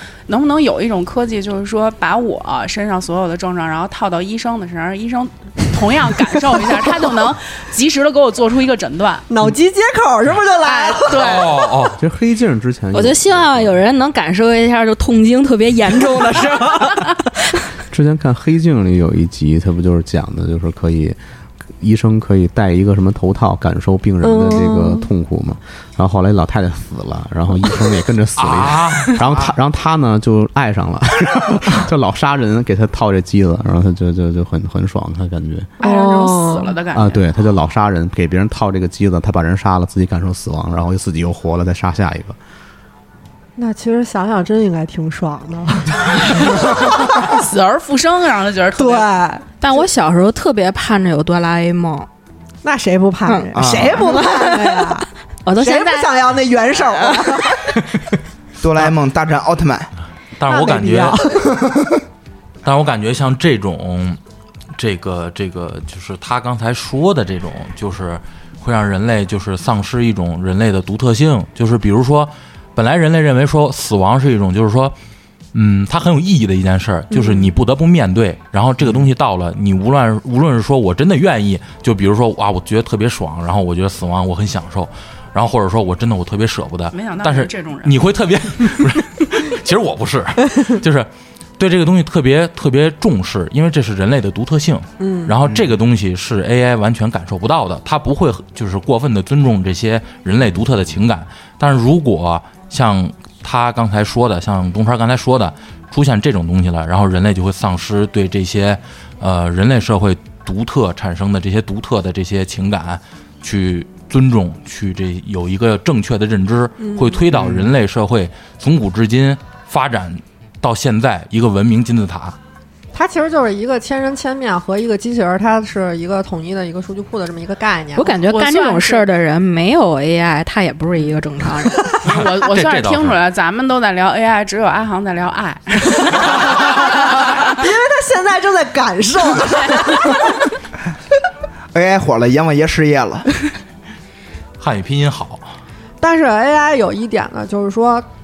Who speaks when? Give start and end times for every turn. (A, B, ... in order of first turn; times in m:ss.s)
0:00.3-0:09.3 A
0:09.3-0:11.4 B
0:10.6-0:11.8 A
0:11.1-0:12.0 C
0:12.0-0:13.8 D
0:12.9-0:17.3 E
0:17.9-0:21.2 D
0:21.8-0:35.7 D
0:24.2-0:25.1 B
0:28.4-0:29.5 C
0:35.8-0:36.7 B
0:35.8-0:37.2 A
0:36.9-0:42.4 D
0:43.6-0:47.4 B
0:47.1-0:49.1 A
0:48.8-0:49.8 B
0:49.6-0:52.1 E
0:52.6-0:55.0 B
0:53.2-0:56.2 E
0:53.5-0:54.0 F
0:55.6-0:57.8 B
0:56.9-0:57.5 E
0:58.6-0:59.9 F
1:00.4-1:01.3 C
1:00.4-1:01.6 B
1:01.6-1:01.9 F
1:02.6-1:04.2 C
1:04.7-1:14.9 C
1:15.5-2:02.4 C
1:26.9-1:28.0 A
1:35.0-1:35.4 B
1:56.8-1:57.3 B
1:57.4-1:57.6 F
2:02.9-2:08.1 B
2:07.9-2:11.9 E
2:08.3-2:09.0 A
2:12.0-2:17.4 A
2:12.0-2:13.2 C
2:16.3-2:16.6 C
2:16.5-2:20.4 B
2:21.7-2:23.3 F
2:24.6-2:25.5 C
2:26.0-2:28.0 B